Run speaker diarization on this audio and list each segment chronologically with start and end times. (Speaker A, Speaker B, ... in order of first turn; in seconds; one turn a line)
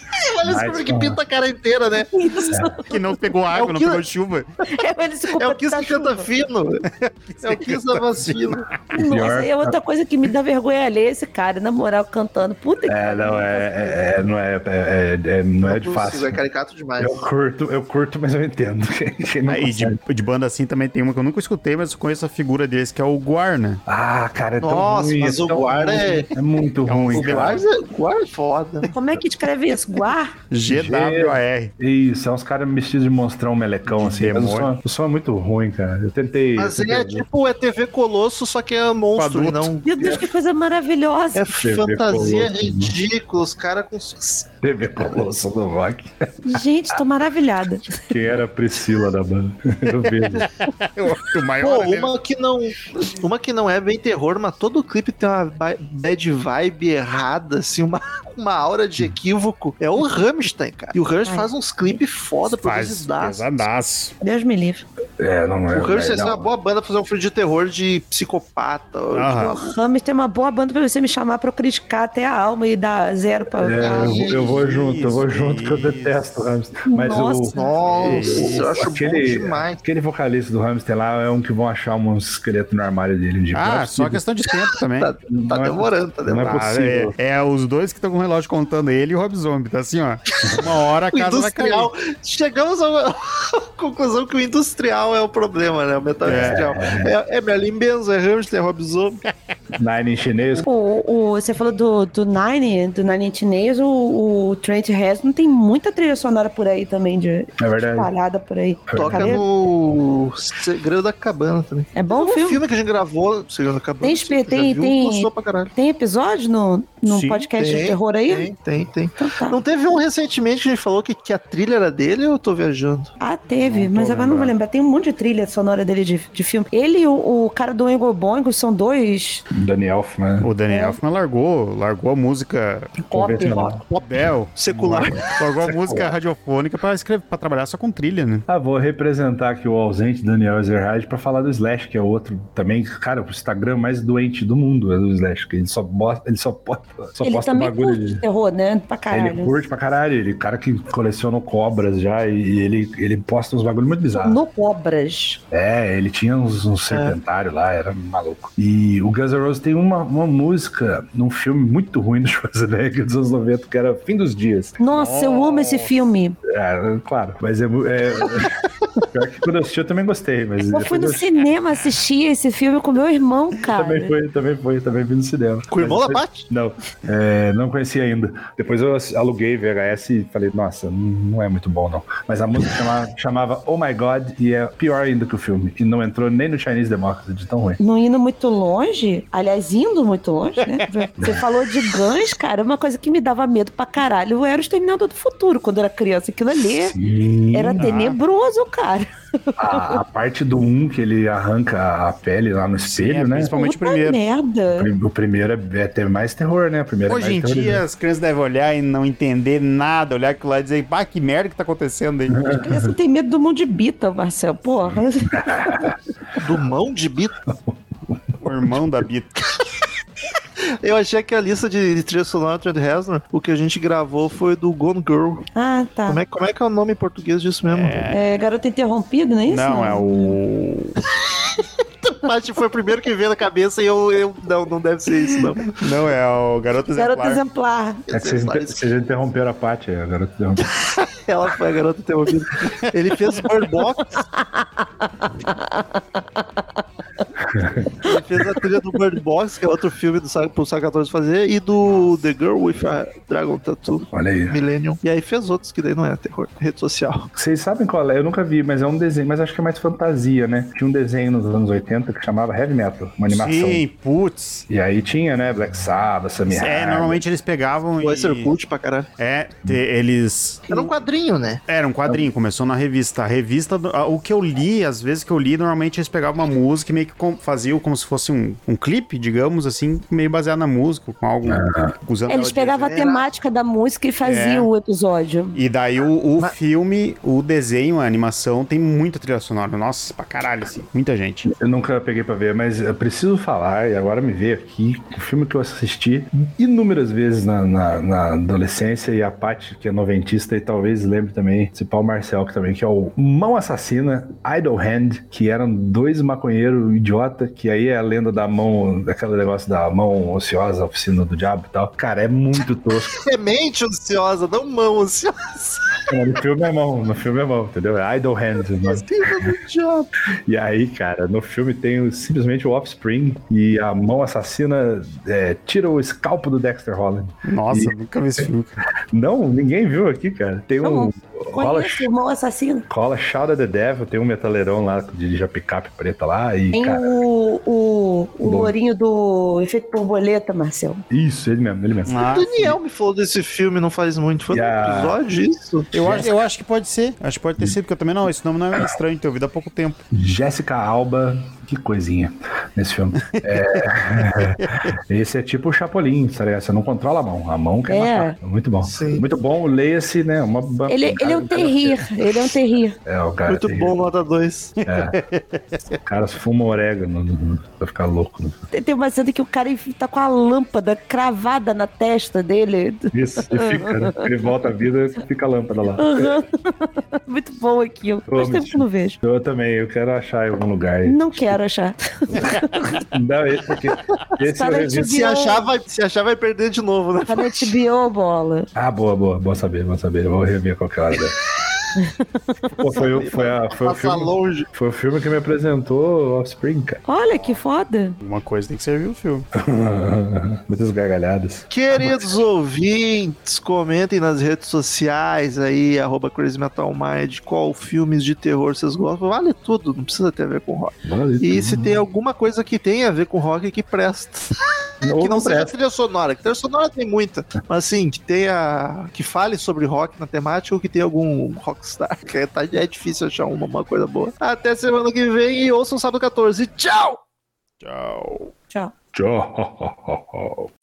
Speaker A: 0.2-2.1
Speaker B: 0.4-1.2
Speaker C: 2.1-2.9
Speaker B: 2.5-2.8
Speaker D: 2.9-4.5
Speaker A: 3.5-4.0
Speaker C: 4.7-6.3
Speaker A: 5.4-6.9
Speaker D: 7.0-8.7
Speaker A: 7.4-8.7
Speaker B: 8.9-9.8
Speaker C: 8.9-14.0
Speaker B: 12.9-16.4
Speaker A: 15.6-17.3
Speaker B: 17.0-20.0
Speaker D: 19.5-23.8
Speaker B: 23.9-27.6
Speaker A: 24.6-26.3
Speaker D: 26.9-27.7
Speaker A: 27.1-28.9
Speaker C: 28.8-30.3
Speaker D: 30.5-31.7
Speaker B: 30.7-37.2
Speaker D: 33.9-34.7
Speaker A: 36.6-40.3
Speaker D: 39.2-39.8
Speaker C: 39.9-41.5
Speaker A: 41.4-44.5
Speaker B: 41.6-43.0
Speaker B: 44.6-47.0
Speaker C: 46.5-47.9
Speaker B: 47.9-50.5
Speaker D: 50.4-52.1
Speaker A: 51.6-63.4
Speaker D: 62.5-64.1
Speaker C: 64.2-64.8
Speaker B: 65.2-66.5
Speaker A: 65.7-69.8
Speaker D: 69.1-69.6
Speaker C: 69.6-74.4
Speaker B: 73.5-84.2
Speaker A: 73.8-74.4
Speaker D: 74.0-76.2
Speaker C: 76.9-77.9
Speaker A: 77.5-79.8
Speaker D: 77.8-78.7
Speaker D: 83.5-85.1
Speaker A: 85.0-86.6
Speaker B: 85.3-87.1
Speaker D: 86.4-91.9
Speaker B: 90.4-90.7
Speaker A: 90.6-99.2
Speaker D: 96.2-96.6
Speaker B: 96.2-97.1
Speaker B: 99.8-100.7
Speaker C: 100.6-109.4
Speaker B: 107.6-108.1
Speaker B: 108.9-109.4
Speaker A: 109.0-115.7
Speaker C: 112.0-112.6
Speaker C: 114.0-118.5
Speaker D: 117.1-117.5
Speaker A: 117.6-123.1
Speaker C: 119.2-119.6
Speaker C: 123.2-129.4
Speaker D: 123.6-124.5
Speaker B: 129.5-130.5
Speaker D: 130.4-132.9
Speaker C: 130.7-131.0
Speaker C: 133.0-133.8
Speaker B: 133.1-133.8
Speaker A: 133.8-135.3
Speaker D: 134.0-138.5
Speaker B: 135.6-136.2
Speaker B: 138.5-148.2
Speaker C: 147.2-149.6
Speaker B: 149.1-154.4
Speaker C: 154.1-155.4
Speaker B: 155.5-164.8
Speaker A: 156.9-157.2
Speaker C: 164.8-166.4
Speaker D: 164.9-165.9
Speaker B: 166.5-168.5
Speaker B: 169.1-171.3
Speaker C: 170.7-174.1
Speaker B: 173.7-187.8
Speaker A: 175.7-176.5
Speaker C: 187.8-197.0
Speaker B: 196.6-197.9
Speaker C: 197.5-200.0
Speaker D: 197.8-198.2
Speaker B: 199.6-203.5
Speaker D: 202.9-204.2
Speaker C: 203.5-204.9
Speaker B: 204.7-207.8
Speaker D: 207.1-212.6
Speaker B: 212.3-212.9
Speaker C: 212.5-215.9
Speaker B: 215.3-216.0
Speaker A: 216.4-217.3
Speaker B: 217.5-218.8
Speaker D: 218.4-219.6
Speaker A: 220.8-225.5
Speaker C: 225.6-226.2
Speaker A: 226.1-228.1
Speaker D: 227.7-228.2
Speaker C: 228.1-230.4
Speaker D: 229.5-231.0
Speaker A: 232.0-235.8
Speaker D: 235.7-237.4
Speaker C: 237.0-238.1
Speaker A: 238.1-238.8
Speaker B: 238.1-240.7
Speaker A: 241.1-244.2
Speaker C: 244.2-246.7
Speaker B: 247.4-248.1
Speaker A: 248.0-257.3
Speaker B: 254.1-254.6
Speaker B: 257.4-263.8
Speaker D: 263.3-264.6
Speaker B: 264.7-267.2
Speaker D: 266.5-268.5
Speaker A: 268.0-269.1
Speaker D: 269.2-270.9
Speaker A: 270.7-271.6
Speaker D: 271.7-282.8
Speaker B: 281.5-281.9
Speaker C: 282.3-285.6
Speaker A: 282.5-283.2
Speaker D: 284.2-284.7
Speaker D: 285.5-291.5
Speaker B: 291.5-313.2
Speaker A: 313.1-316.1
Speaker B: 316.1-319.6
Speaker A: 318.8-320.1
Speaker B: 320.5-327.9
Speaker D: 327.4-328.7
Speaker B: 329.1-332.1
Speaker C: 330.8-332.9
Speaker B: 332.9-337.1
Speaker C: 336.7-341.0
Speaker B: 338.4-338.7
Speaker B: 341.1-342.2
Speaker D: 342.1-342.8
Speaker A: 342.2-345.9
Speaker B: 344.5-345.2
Speaker D: 345.9-350.0
Speaker B: 346.0-346.3
Speaker B: 350.1-362.2
Speaker D: 354.4-354.9
Speaker C: 357.9-358.4
Speaker A: 358.8-359.3
Speaker C: 360.9-363.0
Speaker B: 363.1-363.9
Speaker A: 363.5-364.8
Speaker D: 364.8-365.9
Speaker B: 364.9-365.2
Speaker B: 365.9-368.6
Speaker C: 368.7-374.3
Speaker B: 373.1-376.4
Speaker C: 376.0-379.2
Speaker B: 378.3-381.6
Speaker C: 381.1-383.1
Speaker B: 383.1-385.2
Speaker C: 384.4-385.6
Speaker A: 385.1-387.7
Speaker C: 387.3-388.7
Speaker B: 388.8-391.4
Speaker C: 392.0-392.6
Speaker B: 392.8-397.0
Speaker A: 393.0-394.7
Speaker C: 397.1-398.2
Speaker D: 397.3-397.6
Speaker D: 398.2-399.5
Speaker B: 399.6-402.4
Speaker A: 401.7-427.2
Speaker B: 411.1-412.0
Speaker B: 415.0-415.7
Speaker D: 427.8-428.5
Speaker B: 429.1-430.7